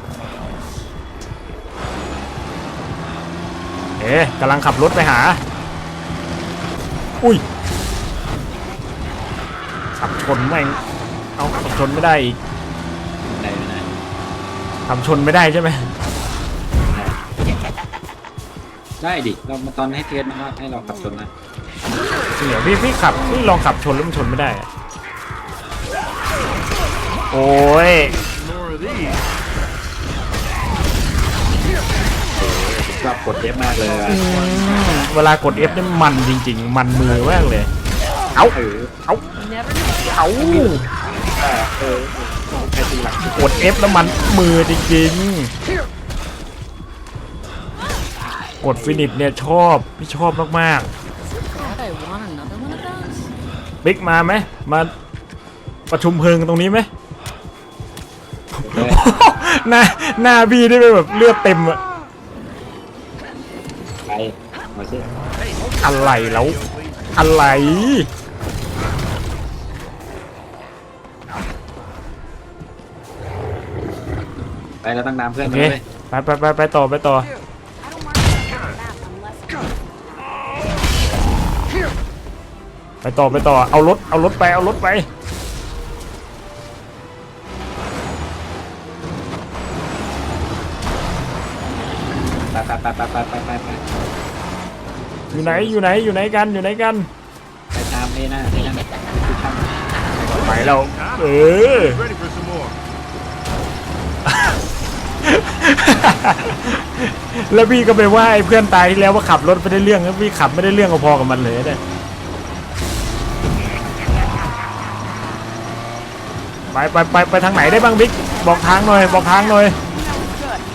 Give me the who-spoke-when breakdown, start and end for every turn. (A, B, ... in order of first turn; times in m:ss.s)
0:04.0-0:05.4 A
0:10.0-0:10.8 A
0:11.4-0:12.4 A
0:13.2-0:13.9 B
0:14.9-0:15.9 A
0:16.9-0:17.2 B
0:19.0-0:21.3 B
0:22.4-0:24.7 A
0:27.3-0:28.1 A
0:27.9-0:29.2 C
0:32.4-0:34.2 B
0:33.5-0:35.3 C
0:34.1-0:37.7 A
0:35.5-0:35.8 B
0:38.5-0:38.9 B
0:39.3-0:40.6 D
0:40.1-0:40.8 A
0:40.3-0:43.5 B
0:43.3-0:45.5 A
0:48.6-0:50.9 A
0:48.7-0:49.1 B
0:51.2-0:53.3 D
0:53.8-0:54.9 A
0:55.9-0:56.9 A
0:58.6-1:01.8 A
0:58.6-0:59.0 B
1:04.1-1:05.1 B
1:05.4-1:07.2 C
1:05.8-1:06.6 A
1:07.2-1:08.1 A
1:14.8-1:15.8 B
1:15.4-1:17.3 A
1:17.3-1:19.8 E
1:23.0-1:25.1 A
1:32.5-1:33.8 B
1:35.3-1:35.8 C
1:35.3-1:37.1 A
1:37.7-1:39.7 B
1:40.2-1:42.8 C
1:40.4-1:42.0 A
1:44.3-1:44.6 A
1:45.2-1:51.8 A
1:56.7-1:59.8 A
1:57.6-2:00.6 E